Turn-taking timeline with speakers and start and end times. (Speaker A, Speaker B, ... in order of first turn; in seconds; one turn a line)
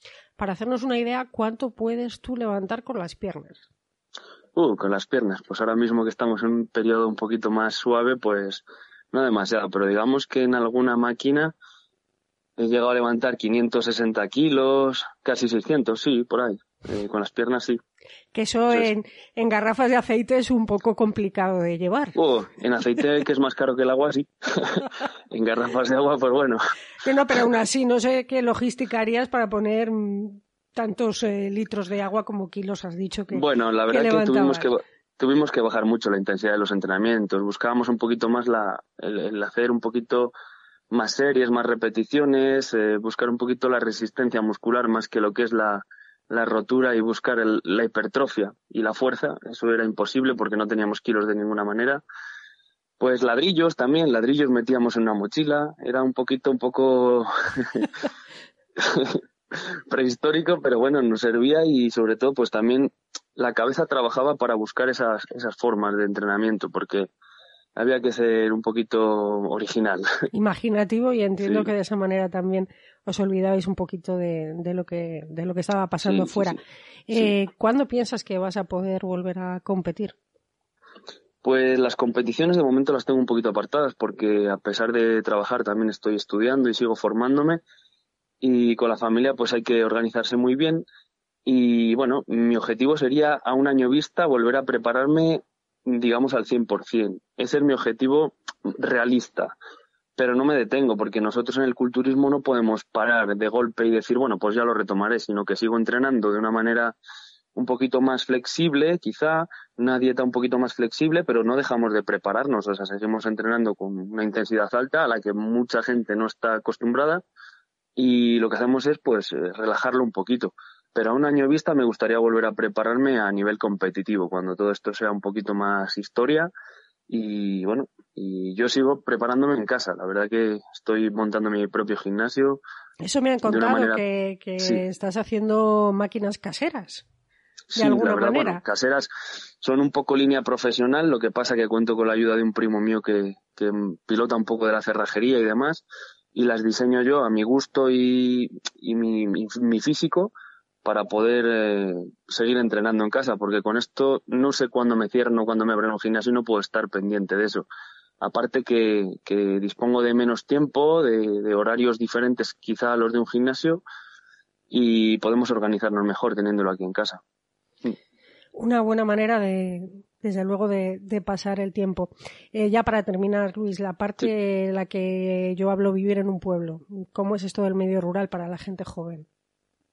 Speaker A: 0.4-3.6
Speaker B: 4.6-11.6
Speaker B: 12.6-17.8
Speaker A: 18.3-22.2
Speaker B: 22.2-26.6
Speaker A: 27.0-34.7
Speaker B: 33.3-40.3
Speaker B: 40.9-52.0
Speaker B: 53.0-57.9
Speaker B: 58.8-59.2
Speaker B: 59.9-67.1
Speaker B: 67.8-70.1
Speaker A: 70.3-80.2
Speaker B: 71.4-71.7
Speaker B: 76.0-76.6
Speaker B: 81.4-87.6
Speaker B: 88.4-90.8
Speaker B: 91.5-99.5
Speaker B: 100.2-107.0
Speaker B: 107.6-117.2
Speaker B: 118.0-126.5
Speaker B: 127.1-132.6
Speaker A: 133.0-137.1
Speaker B: 133.4-134.0
Speaker B: 137.7-139.1
Speaker A: 137.8-138.6
Speaker B: 139.6-150.3
Speaker B: 150.8-157.7
Speaker B: 158.2-163.8
Speaker B: 164.7-167.2
Speaker A: 168.6-179.3